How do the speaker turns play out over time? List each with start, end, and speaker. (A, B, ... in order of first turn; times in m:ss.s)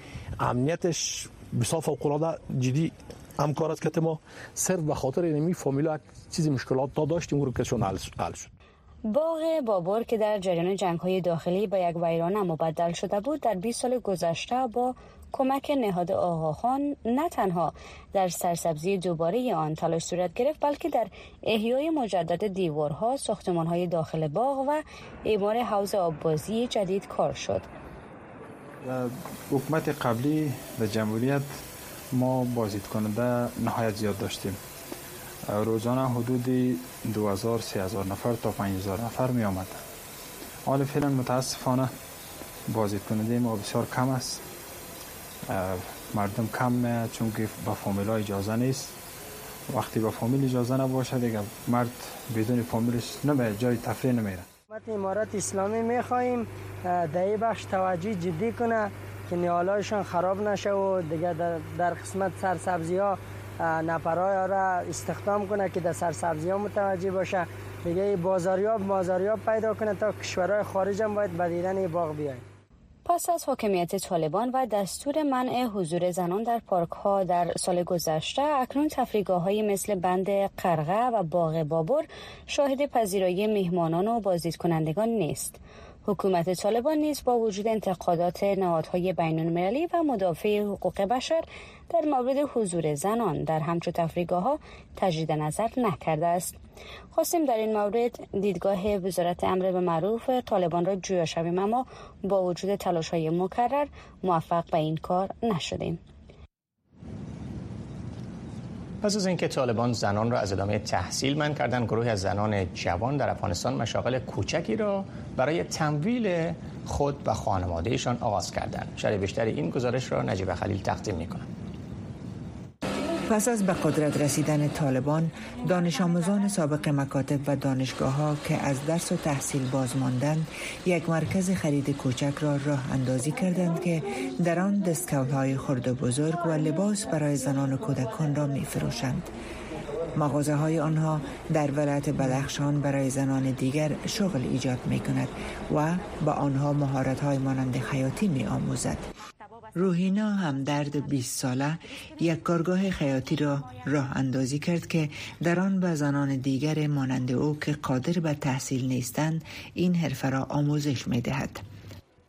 0:00.4-0:08.5 A
0:09.1-0:27.7 B
0:28.8-0:31.5 C
0:32.1-0:34.6 C
0:35.5-0:39.8 C
0:40.6-0:41.9 C
0:42.7-0:44.4 C
0:45.5-0:48.9 C
0:49.7-0:54.4 C
0:54.7-1:12.4 D
1:13.0-1:36.6 B
1:37.1-1:46.0 B
1:49.0-2:01.5 E
2:03.3-2:19.3 F
2:20.1-2:29.1 F
2:29.7-2:41.6 F